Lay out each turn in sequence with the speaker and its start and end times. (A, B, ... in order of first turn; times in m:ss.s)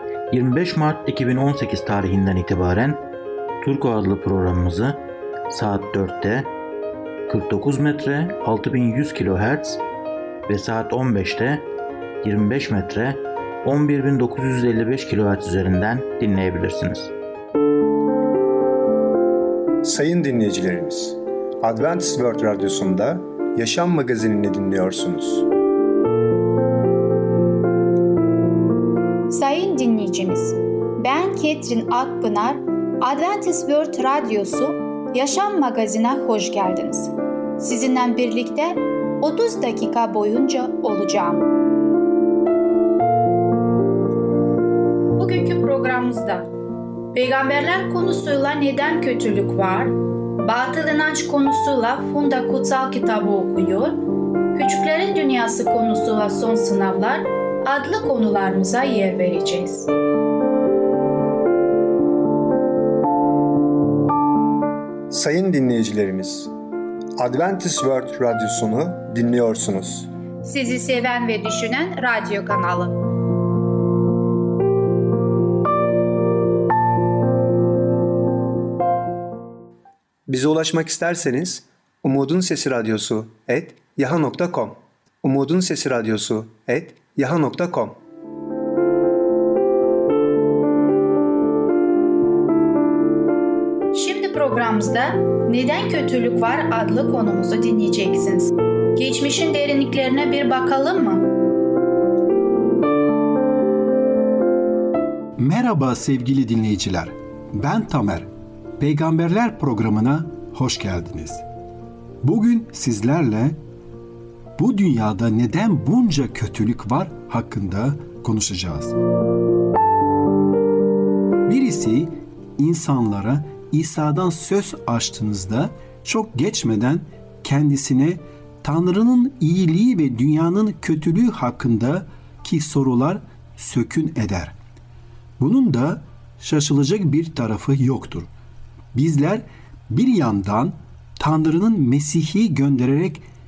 0:00.3-0:03.0 A
0:03.6-0:06.5 A
0:07.3-0:09.8 A
0:10.5-0:11.6 A
0:12.2-0:17.1 A
0:19.8-0:25.5 B
0:29.3-0:41.5 C
0:45.2-0:46.5 C
0:47.1-0:54.0 C
0:54.5-0:59.9 C
1:05.1-1:06.5 B
1:07.2-1:10.1 B
1:10.4-1:13.0 C
1:20.3-1:28.0 B
1:33.9-1:41.3 C
1:45.4-1:48.3 D
1:48.8-1:51.4 D
1:52.2-1:53.6 D
1:54.6-1:59.0 D
2:01.5-2:14.5 D
2:15.4-2:18.3 D
2:18.9-2:23.2 D